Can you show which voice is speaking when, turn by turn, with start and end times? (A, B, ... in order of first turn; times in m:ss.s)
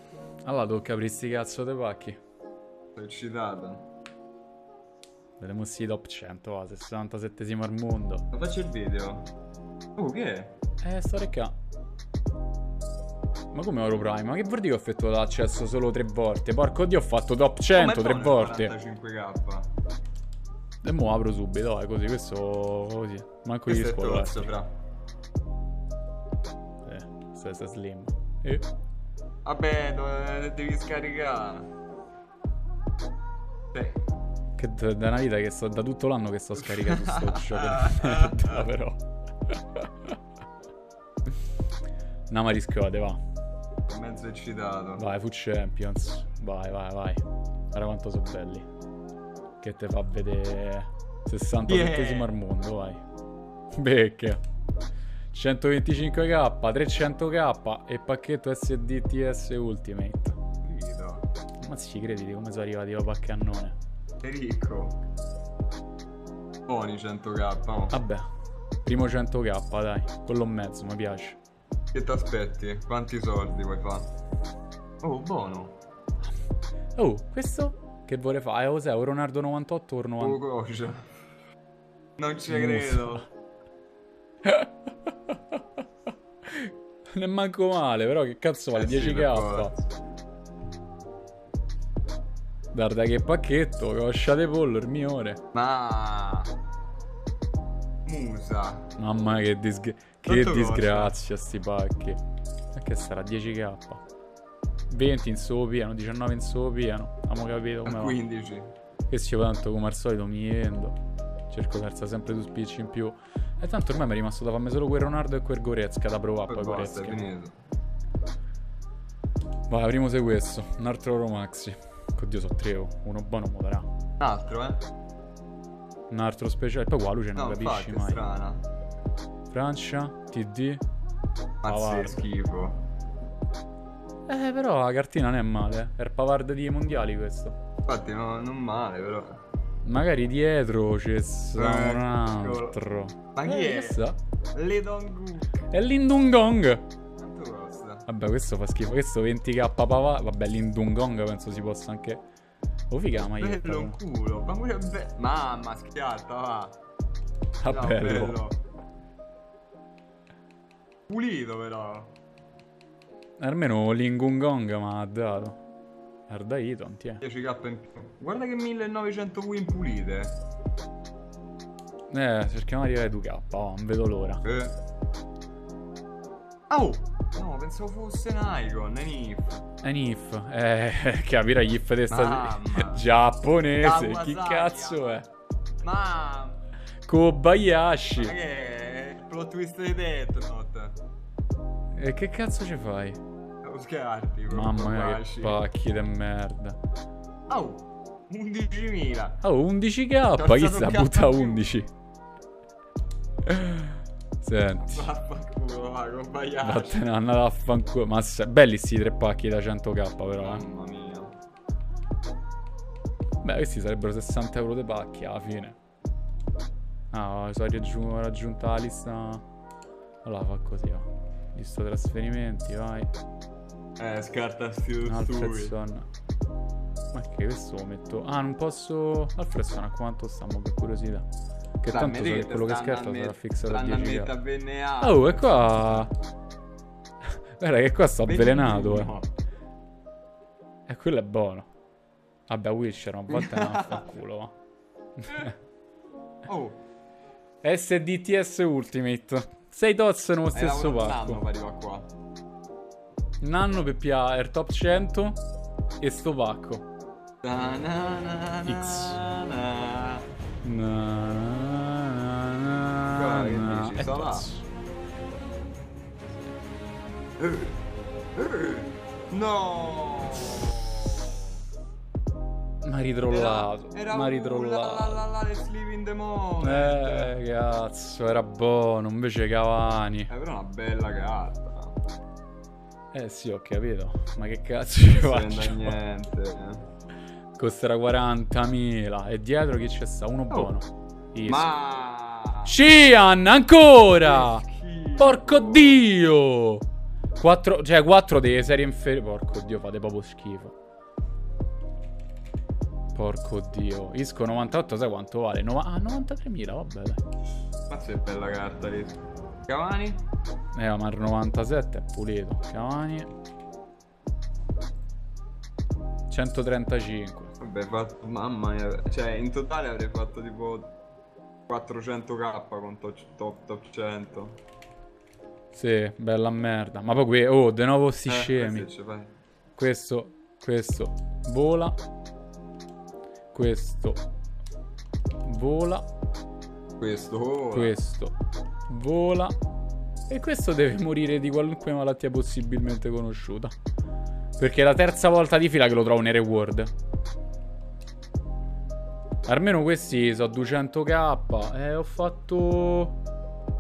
0:00.4-0:02.2 A
0:03.0-0:03.9 B
0:05.4-0:08.3 A
0:08.3-0:09.3 B
0:10.0-0:10.6 B
0:10.8-0:11.6 A
0:13.5-0:18.8 A
0:17.7-0:19.7 B
0:20.8-0:24.5 A
0:23.7-0:24.7 B
0:26.8-0:28.7 A
0:29.4-0:31.7 B
0:33.7-0:34.0 B
0:34.6-0:40.1 A
0:36.7-0:38.7 B
0:42.3-0:43.2 A
0:43.9-0:45.0 B
0:45.0-0:47.2 A
0:47.7-0:48.7 A
0:49.6-0:53.0 A
0:51.7-0:52.3 B
0:53.7-0:54.4 A
0:55.3-1:00.4 A
1:00.6-1:01.3 B
1:01.6-1:03.8 A
1:04.2-1:05.0 B
1:06.7-1:08.0 B
1:07.9-1:08.3 A
1:08.8-1:11.4 A
1:11.9-1:14.1 B
1:15.0-1:15.8 B
1:17.0-1:20.4 A
1:20.2-1:21.0 B
1:22.2-1:23.3 B
1:22.5-1:23.3 A
1:24.4-1:25.4 A
1:26.5-1:29.7 A
1:28.8-1:29.9 B
1:32.7-1:35.4 A
1:35.5-1:36.6 B
1:38.0-1:39.0 B
1:39.0-1:42.2 A
1:40.2-1:41.2 B
1:42.7-1:44.0 A
1:44.9-1:48.2 A
1:47.8-1:48.7 B
1:49.1-1:51.0 A
1:51.5-1:57.3 A
1:56.5-1:57.6 B
1:59.7-2:03.9 A
2:04.2-2:04.9 B
2:06.1-2:08.3 A
2:07.4-2:08.6 B
2:09.5-2:10.8 A
2:11.6-2:12.8 B
2:11.7-2:12.3 A
2:14.3-2:17.6 A
2:17.9-2:19.4 B
2:19.8-2:24.2 A
2:21.6-2:22.8 B
2:23.4-2:25.6 B
2:25.7-2:26.8 A
2:27.2-2:28.1 B
2:28.1-2:32.2 A
2:32.9-2:34.0 A
2:33.4-2:36.8 B
2:37.6-2:38.4 A
2:37.7-2:38.6 B
2:41.1-2:42.1 B
2:43.4-2:45.6 A
2:46.3-2:47.2 A
2:47.2-2:50.4 B
2:52.1-2:54.4 A
2:54.4-2:54.8 B
2:56.7-2:59.6 B
2:59.8-3:05.3 A
3:02.1-3:03.1 B
3:03.8-3:05.2 B
3:05.8-3:06.6 B
3:07.1-3:08.4 A
3:08.2-3:11.0 B
3:11.9-3:13.2 A
3:13.6-3:15.6 B
3:14.5-3:16.8 A
3:17.5-3:19.4 B
3:19.4-3:21.9 A
3:20.3-3:21.6 B
3:23.4-3:25.1 A
3:24.8-3:27.0 B
3:26.6-3:30.6 A
3:30.4-3:31.3 B
3:33.4-3:35.8 A
3:37.1-3:39.4 A
3:40.2-3:43.1 A
3:44.0-3:45.7 B
3:45.0-3:46.1 A
3:47.1-3:51.3 A
3:51.8-3:54.4 A
3:51.9-3:55.8 B
3:55.0-3:56.1 A
3:57.6-3:59.1 A
3:58.2-3:59.3 B
4:00.9-4:01.7 A
4:02.5-4:04.6 A
4:03.3-4:04.0 B
4:05.2-4:05.5 A
4:06.4-4:06.8 B
4:07.6-4:11.4 A
4:10.5-4:12.1 B
4:13.4-4:15.4 A
4:16.0-4:16.9 A
4:17.4-4:20.2 B
4:18.7-4:19.2 A
4:20.6-4:24.7 A
4:23.1-4:24.5 B
4:27.4-4:27.8 B
4:28.4-4:31.5 B
4:32.8-4:35.2 A
4:33.3-4:37.3 B
4:36.6-4:40.3 A
4:40.3-4:42.0 B
4:43.1-4:46.0 A
4:45.0-4:46.9 B
4:47.6-4:51.7 A
4:51.4-4:52.8 B
4:52.7-4:54.6 A
4:54.1-4:56.0 B
4:55.2-5:00.7 A
5:03.1-5:07.2 A
5:07.9-5:10.2 B
5:10.7-5:13.3 A
5:16.3-5:17.5 A
5:17.6-5:20.9 B
5:21.7-5:24.6 B
5:25.7-5:28.9 A
5:28.3-5:29.3 B
5:29.8-5:32.0 A
5:33.5-5:34.2 A
5:35.4-5:36.1 A
5:37.0-5:38.0 B
5:37.7-5:38.4 A
5:38.9-5:39.6 A
5:40.3-5:43.7 A
5:44.6-5:46.9 A
5:49.5-5:53.2 A